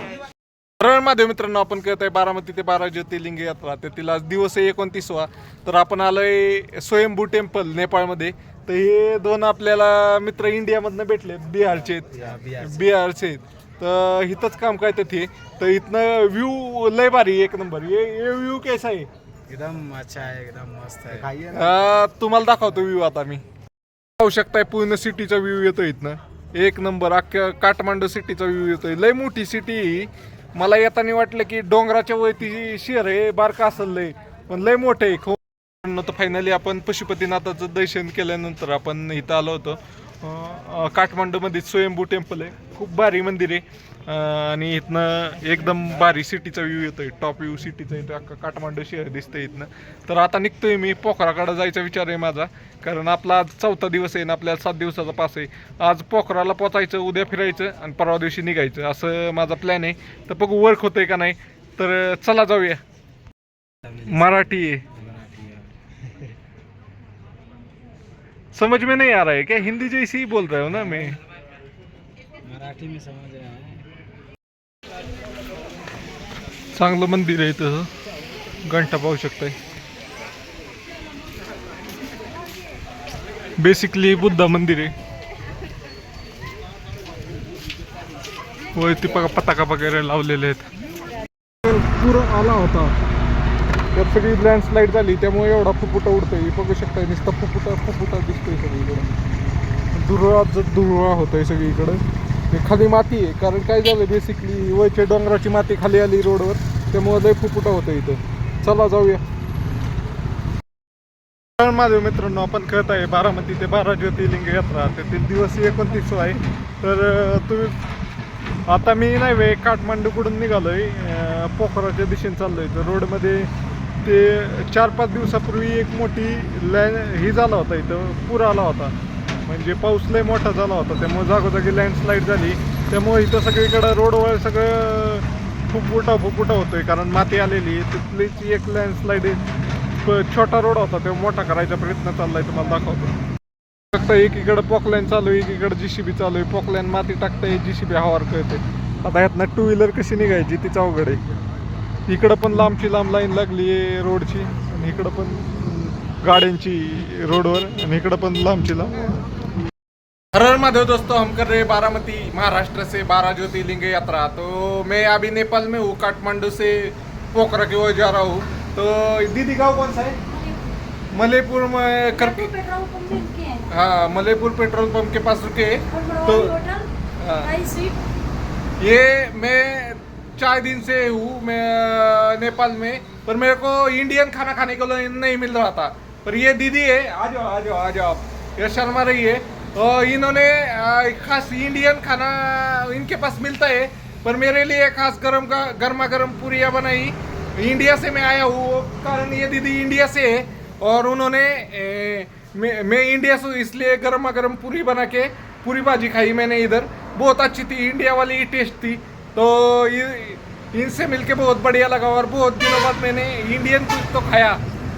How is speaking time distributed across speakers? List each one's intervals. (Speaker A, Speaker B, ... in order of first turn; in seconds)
Speaker A: 0.8-19.1, 21.5-23.4, 24.2-62.8, 64.0-64.8, 68.5-71.2, 76.7-77.9, 78.6-79.5, 83.6-84.9, 88.8-90.7, 91.7-92.9, 93.9-99.1, 99.9-109.2, 111.6-117.8, 118.7-123.5, 124.0-128.9, 129.4-139.4, 140.0-143.2, 143.9-151.2, 152.1-159.2, 160.3-170.2, 171.1-172.6, 173.7-176.6, 177.2-177.7, 178.8-214.6
Speaker B: 12.1-12.8, 19.5-21.8, 63.9-64.3, 64.9-65.8, 70.7-71.1, 72.4-73.9
Speaker C: 172.5-173.7, 176.0-176.9, 177.6-178.0